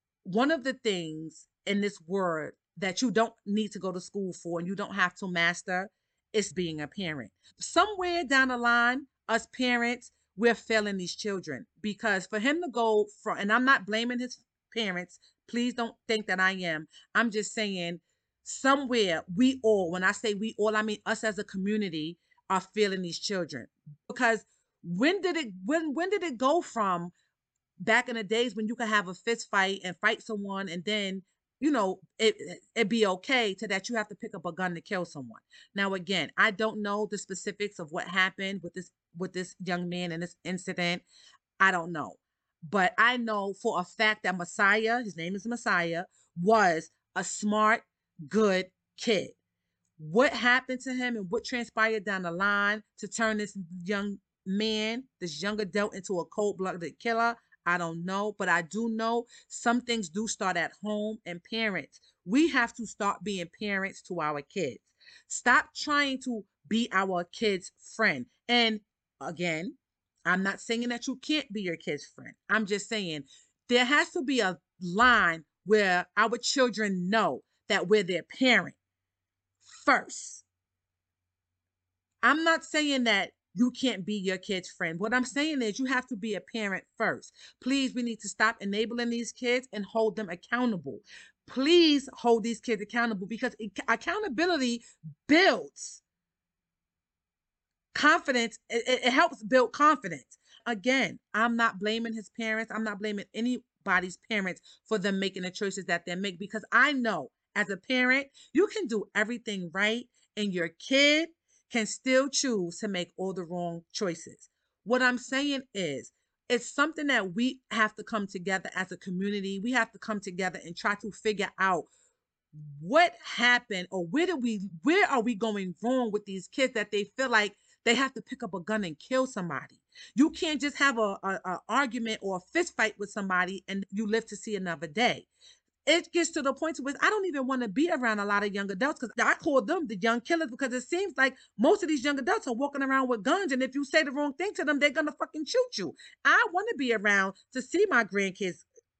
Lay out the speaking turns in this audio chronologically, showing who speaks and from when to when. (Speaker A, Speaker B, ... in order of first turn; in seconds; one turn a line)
Speaker A: 0.2-27.1
Speaker A: 27.8-41.0
Speaker A: 41.6-49.4
Speaker A: 50.0-69.8
Speaker A: 70.3-78.8
Speaker A: 79.8-80.4
Speaker A: 82.2-96.0
Speaker A: 97.9-121.9
Speaker A: 122.5-135.3
Speaker A: 135.8-148.6